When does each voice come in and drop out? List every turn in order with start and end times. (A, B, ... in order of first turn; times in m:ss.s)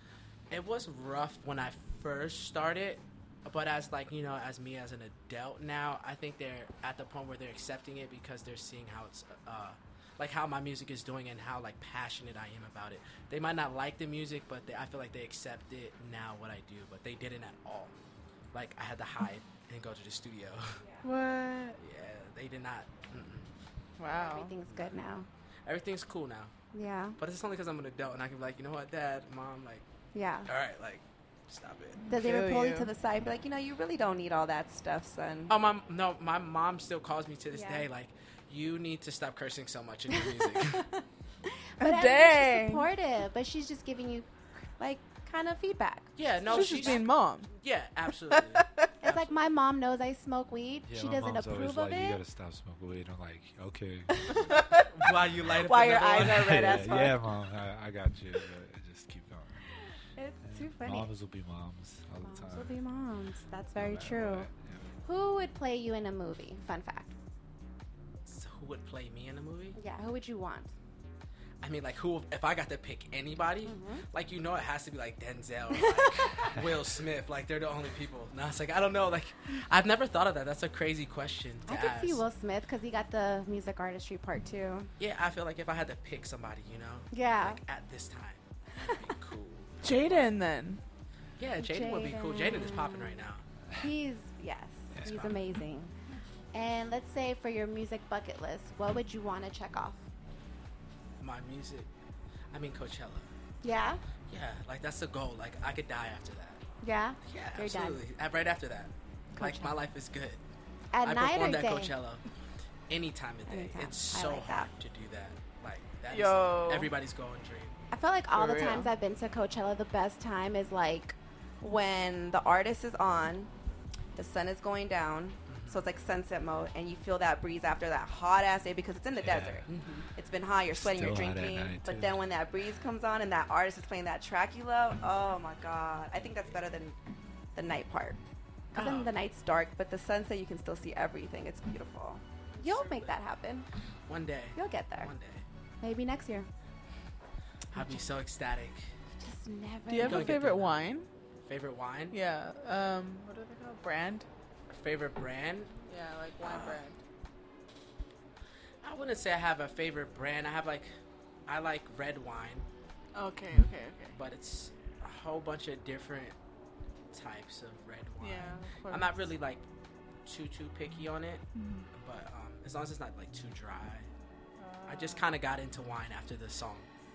0:00.5-0:18.0 A
0:18.5-0:20.8 A
0:21.0-0:21.8 B
0:21.8-0:23.5 A
0:24.0-0:24.6 B
0:24.1-0:25.3 C
0:24.7-0:24.9 A
0:25.7-0:26.5 A
0:26.7-0:27.2 C
0:27.2-0:29.8 A
0:30.2-0:30.5 C
0:30.5-0:32.0 A
0:32.0-0:32.9 B
0:32.1-0:33.0 C
0:33.0-0:35.5 D
0:35.5-0:40.8 A
0:37.5-0:37.9 C
0:40.6-0:41.0 C
0:41.6-0:47.0 C
0:41.8-0:42.9 B
0:46.2-0:49.3 A
0:46.5-0:47.5 B
0:48.3-0:48.9 B
0:49.0-0:52.2 C
0:50.9-0:55.5 E
0:54.9-0:57.0 A
0:55.6-0:57.2 D
0:56.1-0:59.6 E
1:00.2-1:01.1 C
1:00.4-1:02.8 E
1:02.2-1:04.5 C
1:03.8-1:04.9 E
1:05.0-1:07.2 C
1:08.3-1:09.8 A
1:09.8-1:10.7 C
1:11.6-1:22.2 A
1:13.6-1:14.0 C
1:21.7-1:24.9 C
1:25.0-1:30.3 A
1:27.1-1:27.6 C
1:28.8-1:29.1 C
1:29.8-1:30.8 B
1:31.4-1:33.4 A
1:31.6-1:35.9 C
1:34.9-1:35.3 E
1:35.0-1:35.4 A
1:36.5-1:40.0 C
1:41.2-1:41.9 A
1:42.5-1:43.3 A
1:43.6-1:44.0 C
1:44.3-1:46.6 A
1:46.8-1:48.0 C
1:47.2-1:50.4 A
1:49.4-1:49.8 C
1:50.9-1:51.9 C
1:51.0-1:52.2 A
1:52.9-1:57.8 A
1:53.5-1:54.7 C
1:56.1-1:56.9 B
1:57.9-2:01.2 C
1:58.3-1:58.9 B
2:01.6-2:03.5 D
2:04.2-2:17.0 D
2:05.5-2:05.8 A
2:09.2-2:09.7 E
2:09.7-2:10.1 A
2:10.8-2:12.2 E
2:16.1-2:16.6 A
2:17.6-2:18.2 D
2:18.7-2:19.1 A
2:18.7-2:19.4 C
2:19.3-2:22.2 D
2:22.6-2:23.7 C
2:22.6-2:23.2 A
2:24.1-2:25.4 A
2:24.6-2:25.1 C
2:25.8-2:26.5 C
2:27.7-2:28.9 A
2:27.7-2:28.0 C
2:29.2-2:30.4 C
2:29.9-2:31.1 B
2:30.0-2:30.9 A
2:31.4-2:32.2 A
2:32.1-2:34.3 B
2:34.7-2:35.7 A
2:35.9-2:37.0 B
2:36.4-2:36.8 A
2:38.8-2:40.9 A
2:41.5-2:42.7 A
2:43.2-2:44.2 B
2:44.1-2:46.4 A
2:47.1-2:49.6 A
2:48.2-2:49.3 B
2:50.2-2:54.1 A
2:51.6-2:51.9 B
2:54.6-2:55.3 B
2:54.9-2:56.9 A